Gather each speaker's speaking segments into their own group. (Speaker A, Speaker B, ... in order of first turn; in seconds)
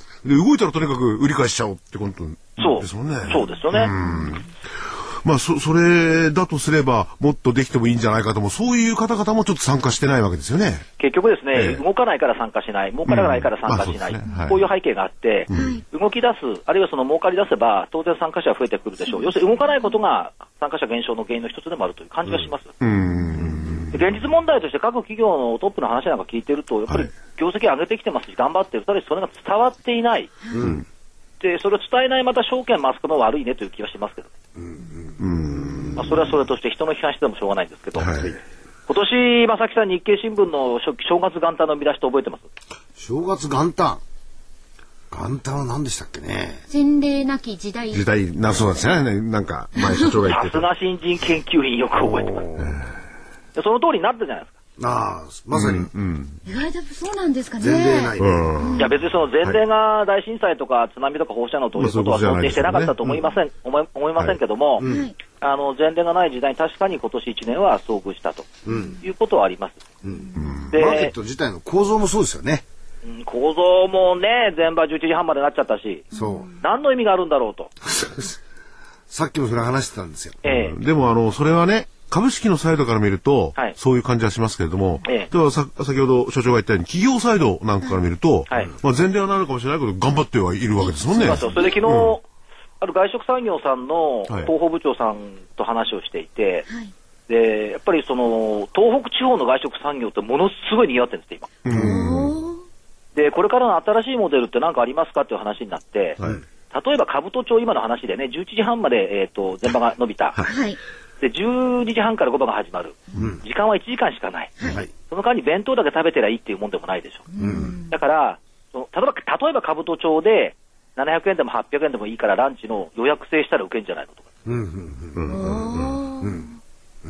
Speaker A: 0.2-10.9, 11.5-11.8, 13.1-14.6, 15.5-15.8, 22.8-23.9, 35.2-36.1, 38.0-38.4, 47.9-50.7, 52.6-52.9, 55.5-56.4, 58.2-59.6, 61.8-63.0, 70.4-70.7, 80.5-92.2, 101.7-102.4, 125.2-126.0
Speaker B: 2.6-4.0, 11.0-22.7, 23.9-30.3, 31.4-34.3, 36.0-38.1, 38.9-42.5, 50.3-52.5, 53.5-54.5, 58.8-68.5, 69.0-69.8, 70.7-71.1, 73.0-76.1, 76.6-77.7, 80.4-80.8, 91.1-92.2, 92.8-96.7, 97.3-101.5, 103.2-106.2, 106.7-110.4, 111.2-117.3, 117.9-124.3
Speaker C: 15.5-15.8, 46.7-48.0, 49.8-50.1, 56.5-58.9, 64.8-65.2, 76.1-76.5, 90.8-91.6, 101.7-102.6, 110.5-110.8, 117.3-117.9, 125.3-126.5
Speaker D: 30.5-30.9, 34.6-35.2, 43.0-44.0, 45.1-46.6, 52.3-52.7, 54.8-55.9, 57.6-58.5, 64.8-65.1, 68.7-69.0, 70.0-72.6, 76.1-76.5, 77.9-78.4, 79.1-80.4, 113.2-113.4, 114.6-114.9, 117.4-117.8, 124.5-125.5, 126.2-126.5